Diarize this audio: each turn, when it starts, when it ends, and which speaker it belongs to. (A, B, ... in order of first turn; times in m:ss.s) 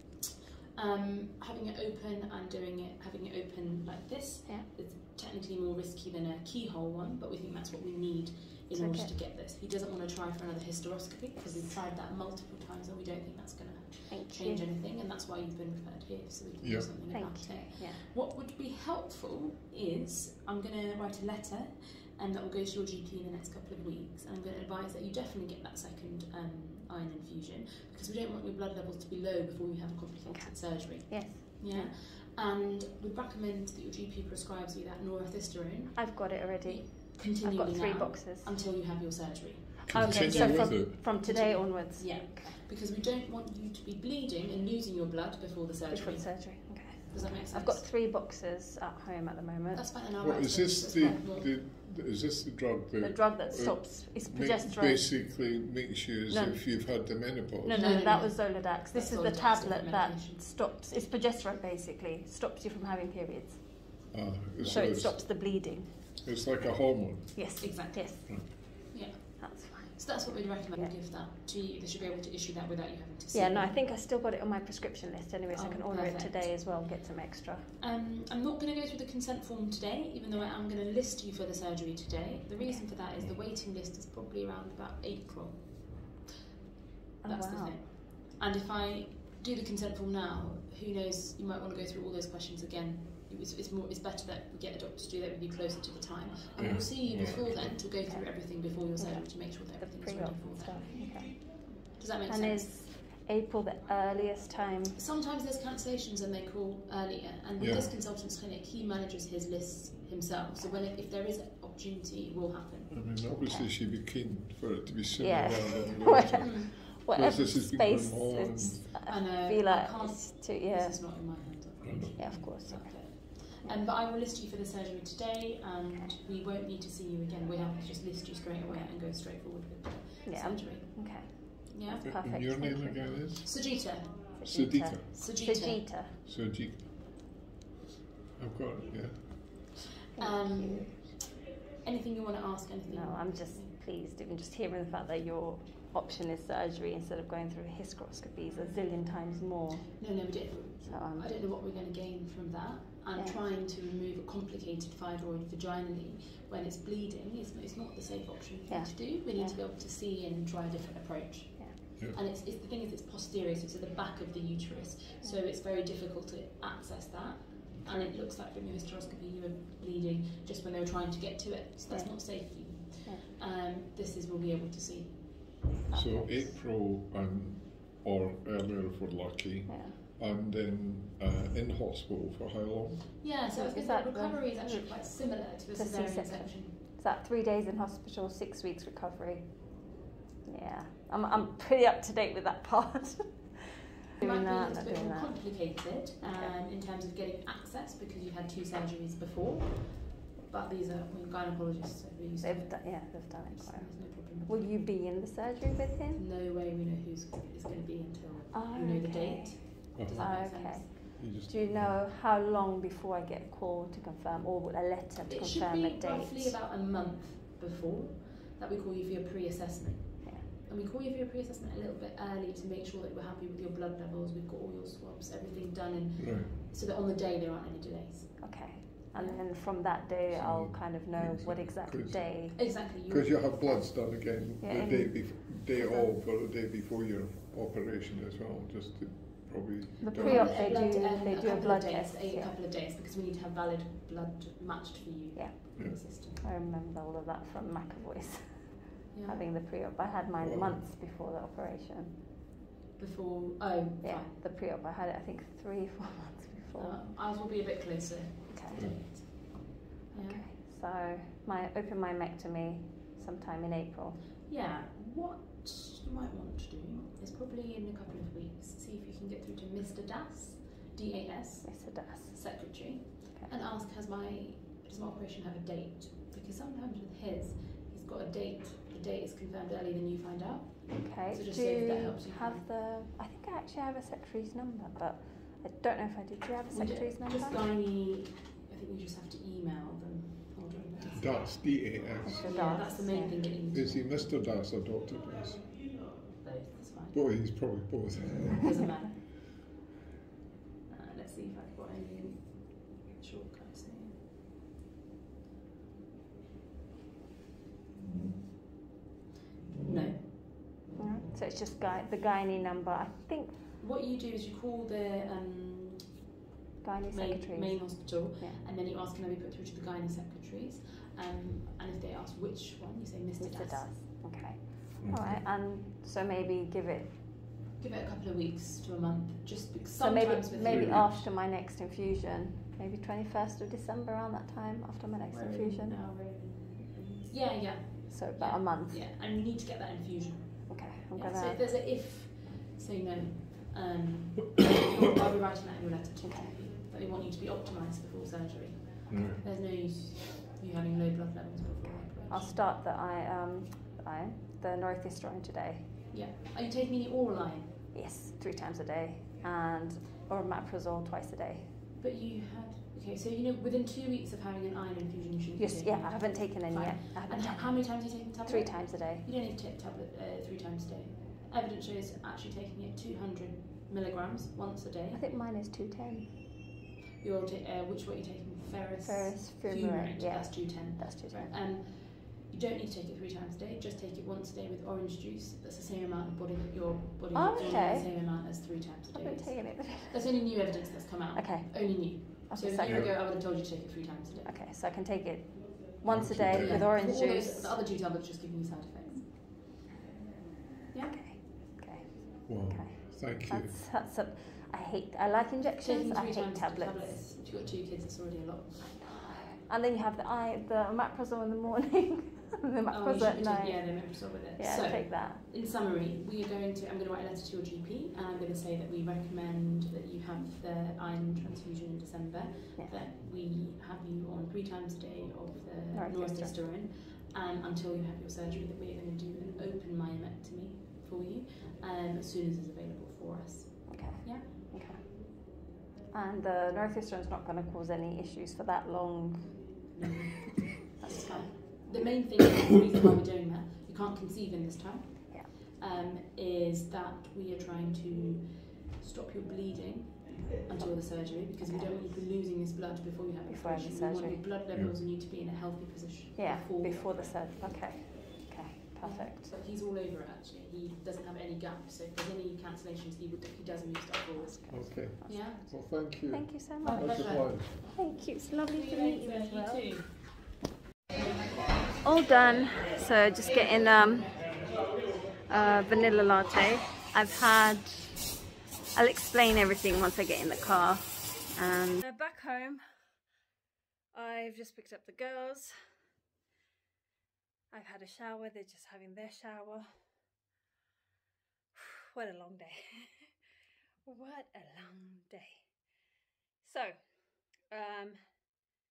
0:00.8-0:47.9 A
0:08.7-0:09.1 B
0:14.1-0:14.7 B
0:16.6-0:16.9 C
0:17.1-0:18.0 B
0:30.3-0:31.9 B
0:35.9-0:38.6 B
0:39.9-0:40.9 C
0:40.0-0:42.6 B
0:45.9-0:50.0 B
0:49.7-0:51.6 A
0:50.2-0:57.9 C
0:53.0-0:55.2 B
0:56.3-1:03.9 B
0:57.7-1:00.4 A
1:04.1-1:07.7 C
1:04.6-1:06.0 B
1:07.3-1:08.6 B
1:07.6-1:13.8 A
1:09.4-1:10.9 B
1:13.3-1:17.7 B
1:15.5-1:16.8 A
1:17.8-1:26.2 A
1:22.6-1:22.9 B
1:27.2-1:27.8 B
1:27.2-1:42.8 A
1:36.6-1:37.8 C
1:38.0-1:45.0 B
1:44.9-1:53.2 A
1:47.6-1:47.9 C
1:52.9-1:59.0 C
1:53.4-1:53.7 B
1:55.2-2:01.0 B
1:56.4-1:56.7 A
1:59.0-2:12.1 A
2:01.8-2:02.5 C
2:02.2-2:03.8 B
2:05.9-2:06.2 B
2:10.3-2:13.3 B
2:12.0-2:15.1 C
2:13.4-2:14.4 A
2:14.4-2:16.2 B
2:15.1-2:15.9 A
2:16.2-2:17.0 C
2:18.4-2:19.6 C
2:20.2-2:21.1 B
2:20.2-2:21.2 A
2:21.8-2:23.8 A
2:22.9-2:30.2 B
2:28.5-2:28.8 A
2:30.0-2:56.6 A
2:30.8-2:31.3 B
2:38.7-2:39.6 B
2:51.9-2:53.3 B
2:55.9-3:03.2 C
2:59.7-3:00.0 B
3:03.2-3:06.8 A
3:03.5-3:09.8 B
3:10.5-3:15.7 B
3:14.2-3:24.9 A
3:16.2-3:16.5 B
3:22.4-3:26.2 B
3:26.1-3:30.9 A
3:28.5-3:36.6 B
3:30.0-3:30.4 C
3:31.2-3:32.0 C
3:35.3-3:49.5 A
3:46.2-3:46.5 C
3:48.4-3:52.8 B
3:50.3-4:00.8 C
3:52.5-3:54.1 A
3:54.6-3:56.1 B
4:00.0-4:02.6 B
4:00.1-4:06.4 A
4:05.4-4:12.2 B
4:09.1-4:09.5 A
4:10.4-4:10.9 C
4:13.0-4:14.3 A
4:14.0-4:17.0 B
4:16.8-4:20.5 A
4:18.5-4:19.0 B
4:18.7-4:19.0 C
4:20.2-4:24.3 B
4:24.4-4:42.7 A
4:31.6-4:33.5 B
4:41.0-4:47.6 B
4:46.7-4:54.4 A
4:51.2-4:52.8 C
4:52.2-4:53.5 B
4:53.7-4:55.9 C
4:56.3-4:57.2 A
4:57.1-4:58.7 C
4:58.6-4:59.2 A
5:00.9-5:04.3 A
5:09.8-5:10.6 A
5:11.0-5:13.6 B
5:13.8-5:16.2 A
5:16.8-5:18.6 B
5:17.1-5:24.1 A
5:23.4-5:27.2 B
5:25.0-5:25.4 C
5:27.8-5:31.0 A
5:30.0-5:36.0 B
5:30.6-5:31.3 C
5:35.3-5:52.6 A
5:38.1-5:39.0 B
5:40.7-5:41.6 B
5:46.2-5:46.6 B
5:49.1-5:49.4 C
5:52.3-5:55.9 B
5:56.1-5:57.8 A
5:57.9-6:01.8 B
6:02.0-6:15.3 A
6:05.6-6:09.3 B
6:15.1-6:16.4 B
6:17.2-6:34.6 A
6:19.0-6:21.5 B
6:27.3-6:28.1 B
6:29.1-6:30.8 B
6:31.3-6:33.1 B
6:32.8-6:33.1 C
6:34.4-6:37.8 B
6:36.0-6:36.8 C
6:36.5-6:39.4 A
6:40.9-6:41.4 A
6:41.1-6:47.2 B
6:42.5-6:43.8 C
6:45.8-6:49.1 A
6:49.0-6:55.4 B
6:52.9-7:14.6 A
7:05.9-7:06.6 B
7:13.9-7:15.2 B
7:16.1-7:19.9 B
7:19.9-7:37.5 A
7:20.9-7:21.4 B
7:30.8-7:32.1 B
7:33.5-7:34.5 B
7:34.7-7:35.0 C
7:36.4-7:39.5 B
7:39.0-7:45.8 A
7:44.4-7:47.2 B
7:44.7-7:47.8 C
7:46.8-7:50.3 A
7:47.7-7:50.1 B
7:52.0-7:54.9 B
7:55.4-7:58.4 B
7:58.9-8:02.8 B
8:04.1-8:05.7 B
8:07.7-8:09.9 B
8:11.7-8:13.3 B
8:14.1-8:15.8 B
8:16.6-8:18.2 B